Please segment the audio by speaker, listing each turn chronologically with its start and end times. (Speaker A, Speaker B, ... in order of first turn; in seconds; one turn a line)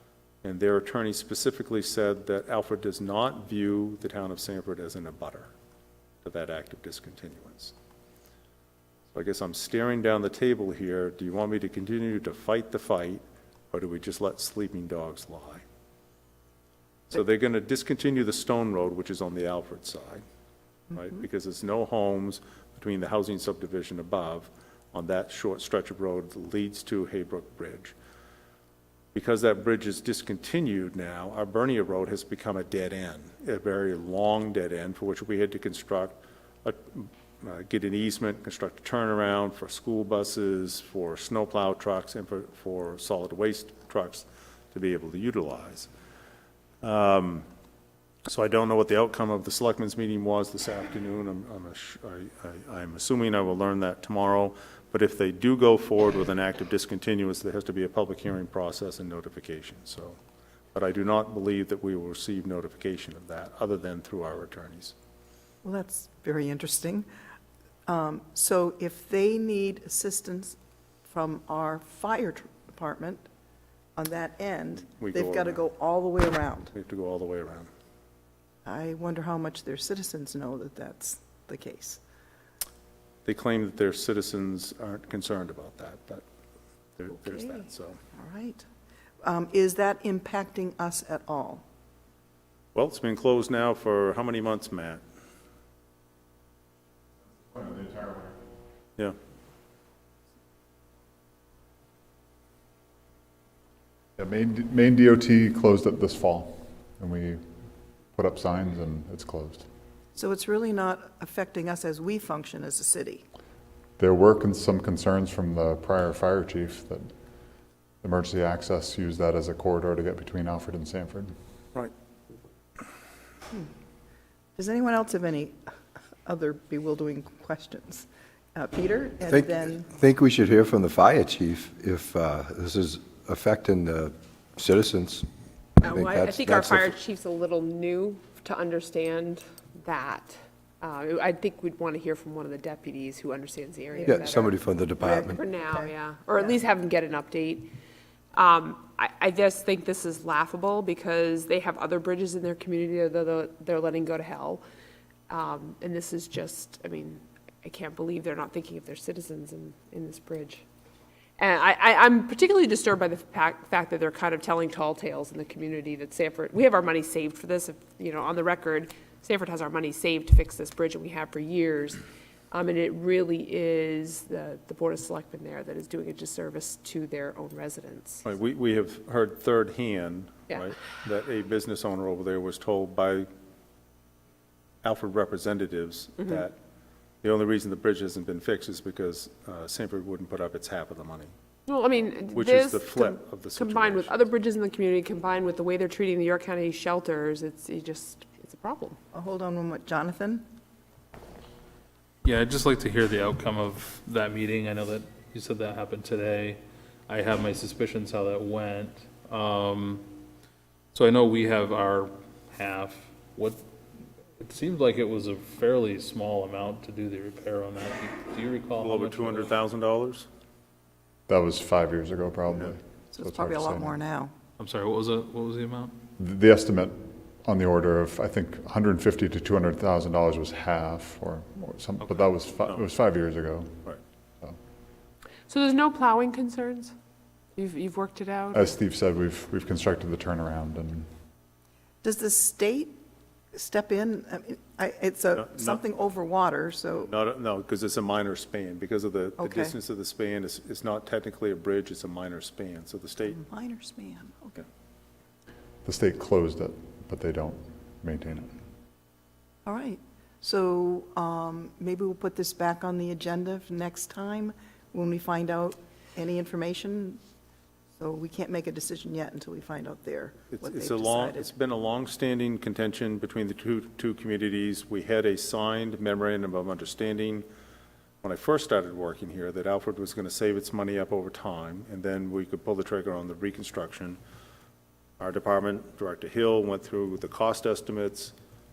Speaker A: 0.4-5.5
Speaker A: 6.2-7.7
Speaker A: 9.1-15.6
Speaker A: 17.1-20.2
Speaker A: 20.9-27.9
Speaker A: 29.1-45.9
Speaker A: 46.8-47.5
Speaker A: 48.2-60.2
Speaker A: 60.7-65.0
Speaker B: 65.6-67.1
Speaker B: 67.9-73.2
Speaker B: 74.0-76.7
Speaker A: 74.8-75.7
Speaker A: 76.7-77.7
Speaker B: 78.6-82.0
Speaker A: 83.2-86.2
Speaker A: 87.0-88.0
Speaker B: 88.1-88.6
Speaker B: 89.2-91.6
Speaker A: 92.7-95.0
Speaker C: 97.4-98.3
Speaker C: 104.2-107.4
Speaker C: 108.1-109.7
Speaker B: 110.1-113.2
Speaker C: 114.0-117.1
Speaker C: 118.0-121.3
Speaker B: 124.6-125.6
Speaker B: 126.2-129.9
Speaker D: 129.3-135.3
Speaker D: 135.8-136.9
Speaker E: 135.8-144.6
Speaker B: 143.9-144.4
Speaker D: 144.0-145.4
Speaker B: 145.0-146.5
Speaker E: 145.2-147.7
Speaker E: 148.3-154.6
Speaker E: 155.3-160.6
Speaker E: 161.4-178.2
Speaker A: 178.2-183.3
Speaker A: 184.8-186.6
Speaker A: 187.2-191.3
Speaker E: 191.7-199.0
Speaker A: 192.3-194.2
Speaker B: 199.1-200.4
Speaker F: 202.2-210.0
Speaker F: 210.9-213.6
Speaker F: 214.4-219.5
Speaker A: 218.8-220.2
Speaker C: 221.3-224.0
Speaker B: 223.1-224.3
Speaker F: 224.6-225.9
Speaker C: 226.2-233.9
Speaker E: 235.5-236.9
Speaker E: 237.6-238.7
Speaker C: 238.5-241.1
Speaker B: 242.0-243.0
Speaker B: 243.5-247.1
Speaker A: 245.4-245.8
Speaker A: 247.0-253.4
Speaker B: 249.4-249.7
Speaker B: 253.2-254.6
Speaker C: 255.8-258.5
Speaker B: 259.6-267.2
Speaker B: 268.0-271.5
Speaker A: 270.5-277.4
Speaker A: 278.2-284.2
Speaker A: 285.2-288.3